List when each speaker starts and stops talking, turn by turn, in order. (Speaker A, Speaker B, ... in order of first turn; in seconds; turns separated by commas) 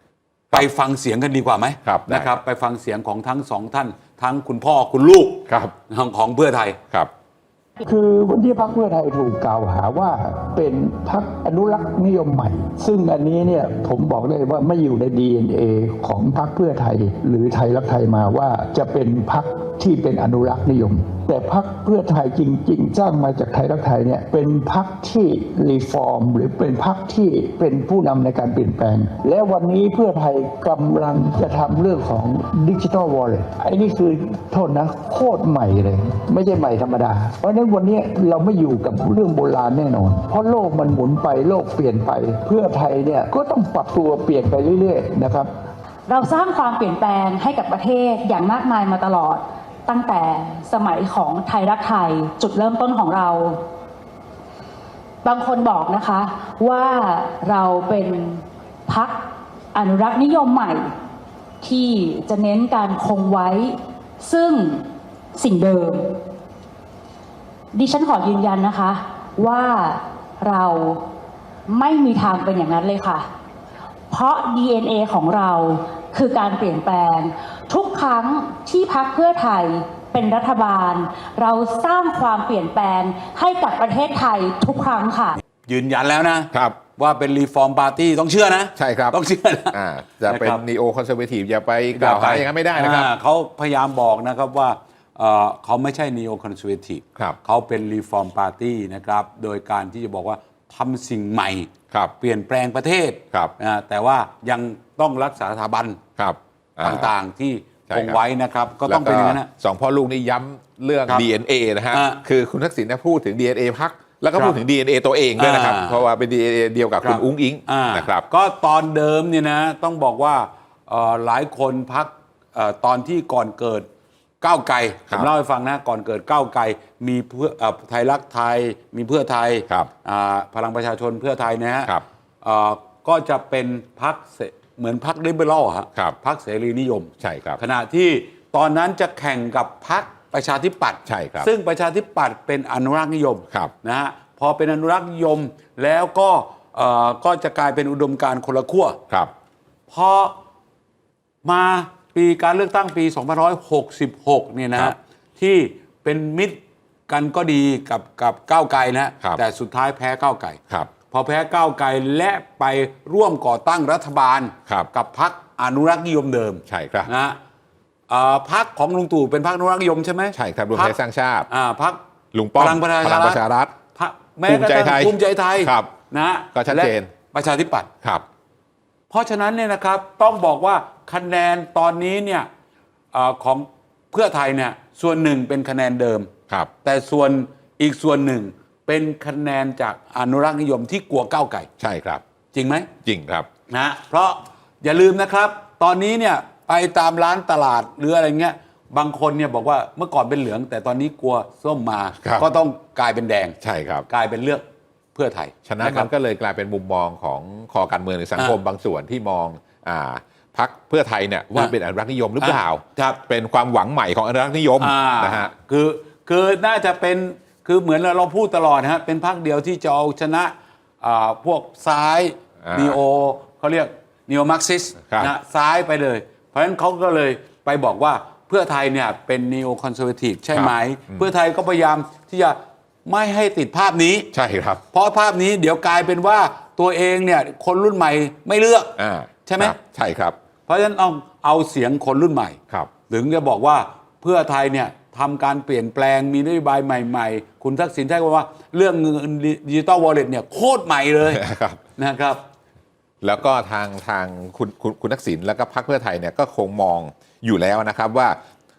Speaker A: 0.5-6.8, Speaker B: 1.8-2.3, Speaker B: 5.5-5.7, Speaker C: 7.8-45.5, Speaker D: 46.1-53.6, Speaker D: 55.2-59.2, Speaker D: 59.7-60.9, Speaker D: 61.6-66.1, Speaker D: 67.7-71.0, Speaker D: 71.7-73.3, Speaker D: 74.1-85.4, Speaker A: 85.6-90.6, Speaker B: 86.5-86.8, Speaker B: 88.8-89.2, Speaker B: 89.7-93.1, Speaker A: 91.9-106.0, Speaker B: 106.2-107.1, Speaker A: 106.8-109.5, Speaker B: 107.9-108.2, Speaker B: 108.8-118.3, Speaker A: 111.9-112.2, Speaker A: 115.4-116.0, Speaker A: 117.0-123.9, Speaker A: 124.4-149.0, Speaker B: 137.2-137.6, Speaker B: 141.1-141.5, Speaker A: 149.9-150.3, Speaker A: 151.4-167.4, Speaker B: 166.7-167.1, Speaker A: 168.1-170.9, Speaker B: 170.3-171.5, Speaker A: 171.5-172.0, Speaker B: 172.3-173.7, Speaker A: 172.5-173.4, Speaker A: 173.9-177.9, Speaker B: 174.5-175.9, Speaker B: 176.5-177.1, Speaker A: 179.1-182.5, Speaker A: 183.1-186.3, Speaker A: 186.8-191.7, Speaker B: 191.8-192.2, Speaker A: 192.5-192.9, Speaker B: 193.0-193.5, Speaker A: 193.7-206.1, Speaker B: 202.2-202.5, Speaker B: 203.6-204.1, Speaker B: 205.7-215.5, Speaker A: 212.4-213.2, Speaker A: 214.8-234.3, Speaker B: 222.6-223.0, Speaker B: 230.5-231.3, Speaker B: 234.3-234.8, Speaker A: 234.9-239.8, Speaker B: 239.0-240.4, Speaker A: 240.7-251.4, Speaker B: 251.3-251.8, Speaker A: 252.0-252.4, Speaker B: 253.2-258.4